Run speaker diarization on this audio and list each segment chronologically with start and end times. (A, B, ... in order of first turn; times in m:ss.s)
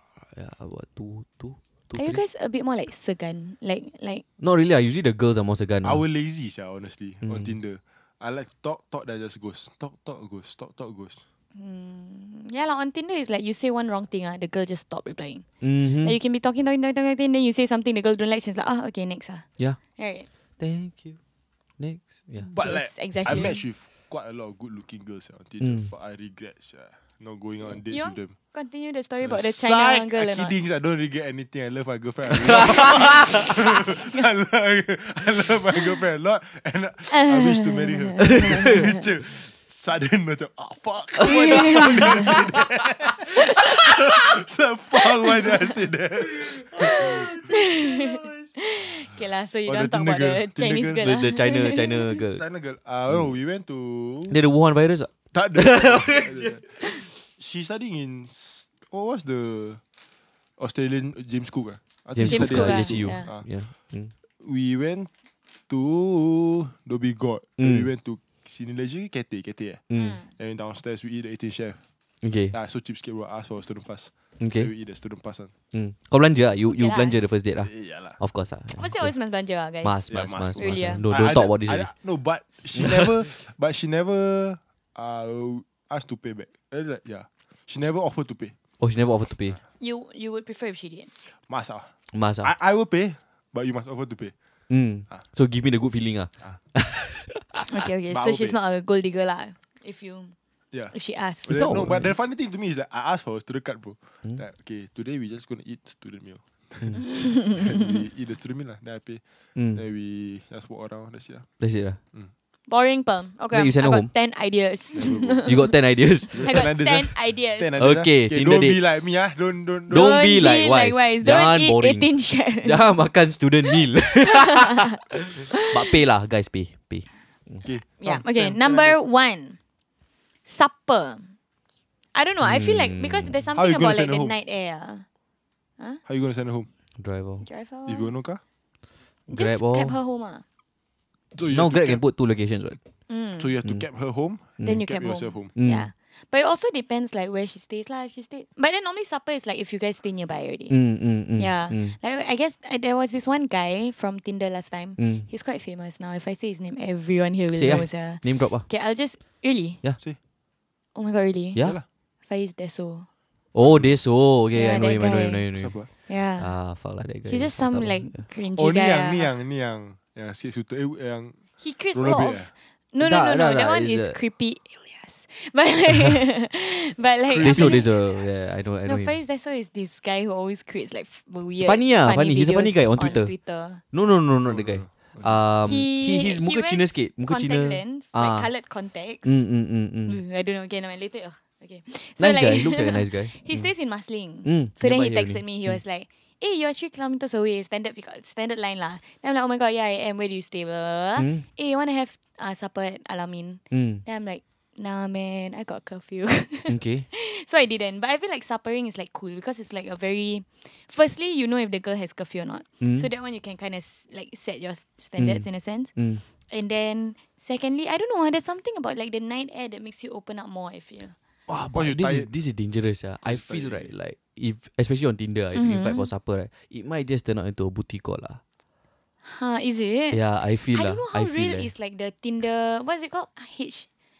0:00.2-0:02.2 A
0:01.9-0:04.2 B
0:04.4-0:06.0 A
0:05.8-0:11.2 C
0:07.2-0:07.5 A
0:11.5-0:20.3 B
0:15.6-0:16.2 A
0:20.6-0:21.2 A
0:21.8-0:22.5 A
0:22.4-0:28.3 C
0:22.5-0:23.6 B
0:25.6-0:25.9 A
0:27.7-0:30.5 B
0:29.2-0:47.3 C
0:32.5-0:33.4 A
0:32.8-0:33.5 B
0:37.1-0:39.0 B
0:38.2-0:38.8 A
0:41.2-0:42.4 B
0:41.5-0:42.4 A
0:43.3-0:44.0 B
0:45.0-0:45.6 B
0:46.4-0:48.4 A
0:46.7-0:52.2 B
0:49.7-0:51.2 C
0:51.0-0:52.4 A
0:52.3-0:54.4 C
0:54.3-0:56.7 A
0:55.3-0:59.8 C
1:00.6-1:03.4 C
1:02.1-1:04.1 A
1:02.2-1:03.3 B
1:04.4-1:05.1 C
1:05.7-1:11.8 C
1:07.6-1:07.9 A
1:09.9-1:10.2 A
1:09.9-1:10.3 B
1:12.2-1:12.5 A
1:12.5-1:15.5 C
1:14.4-1:14.7 A
1:15.7-1:19.1 A
1:16.7-1:17.2 B
1:17.6-1:18.2 C
1:18.8-1:20.0 B
1:19.8-1:21.9 A
1:20.1-1:28.5 C
1:20.6-1:21.0 B
1:22.7-1:23.3 A
1:28.8-1:29.6 A
1:29.8-1:31.1 B
1:31.5-1:31.9 C
1:32.1-1:32.5 A
1:32.4-1:34.3 C
1:34.7-1:37.7 A
1:37.6-1:40.3 B
1:38.1-1:38.6 C
1:40.9-1:41.6 B
1:41.4-1:49.2 C
1:41.5-1:42.2 A
1:47.0-1:47.8 B
1:49.6-1:49.8 A
1:49.7-1:51.5 C
1:51.6-1:52.0 A
1:52.7-1:55.8 B
1:53.5-1:54.1 A
1:54.9-1:55.5 C
1:55.4-1:56.6 A
1:56.3-1:57.8 B
1:56.3-2:00.1 C
1:57.8-1:59.0 A
1:59.9-2:07.7 A
1:59.9-2:02.8 B
2:03.7-2:05.0 B
2:05.5-2:05.9 B
2:07.6-2:09.0 C
2:08.0-2:09.6 B
2:10.4-2:11.3 B
2:12.1-2:15.0 B
2:12.4-2:13.4 A
2:13.5-2:14.3 C
2:16.0-2:16.7 C
2:17.0-2:17.4 A
2:17.4-2:18.1 B
2:17.9-2:18.4 C
2:19.3-2:20.0 A
2:19.3-2:20.4 B
2:21.3-2:22.0 C
2:21.5-2:22.8 A
2:23.1-2:23.5 B
2:23.4-2:25.5 C
2:24.6-2:30.8 B
2:25.5-2:25.9 A
2:30.7-2:32.0 A
2:31.4-2:39.8 B
2:35.0-2:35.3 A
2:37.6-2:38.7 A
2:40.9-2:41.6 B
2:41.6-2:41.8 C
2:42.3-2:43.1 B
2:43.5-2:45.8 A
2:43.6-2:44.0 C
2:44.5-2:45.5 B
2:45.6-2:45.9 C
2:46.1-2:46.5 B
2:46.4-2:48.2 A
2:47.3-2:49.3 B
2:48.6-2:51.4 C
2:51.6-2:58.2 B
2:51.9-2:52.5 C
2:53.0-2:54.2 A
2:57.3-2:57.8 C
2:57.4-2:59.2 A
2:58.8-3:03.8 B
3:01.6-3:03.3 A
3:03.9-3:08.5 A
3:04.4-3:05.4 C
3:05.6-3:09.3 B
3:09.2-3:10.2 A
3:10.0-3:35.9 B
3:12.2-3:13.7 A
3:14.4-3:15.8 A
3:21.2-3:21.4 A
3:23.7-3:24.0 A
3:26.7-3:27.0 A
3:32.8-3:33.1 A
3:35.2-3:36.2 A
3:36.5-3:41.1 B
3:41.5-3:48.4 A
3:41.7-3:42.3 C
3:43.2-3:43.9 C
3:45.5-3:46.1 B
3:49.2-3:53.9 B
3:50.1-3:51.7 A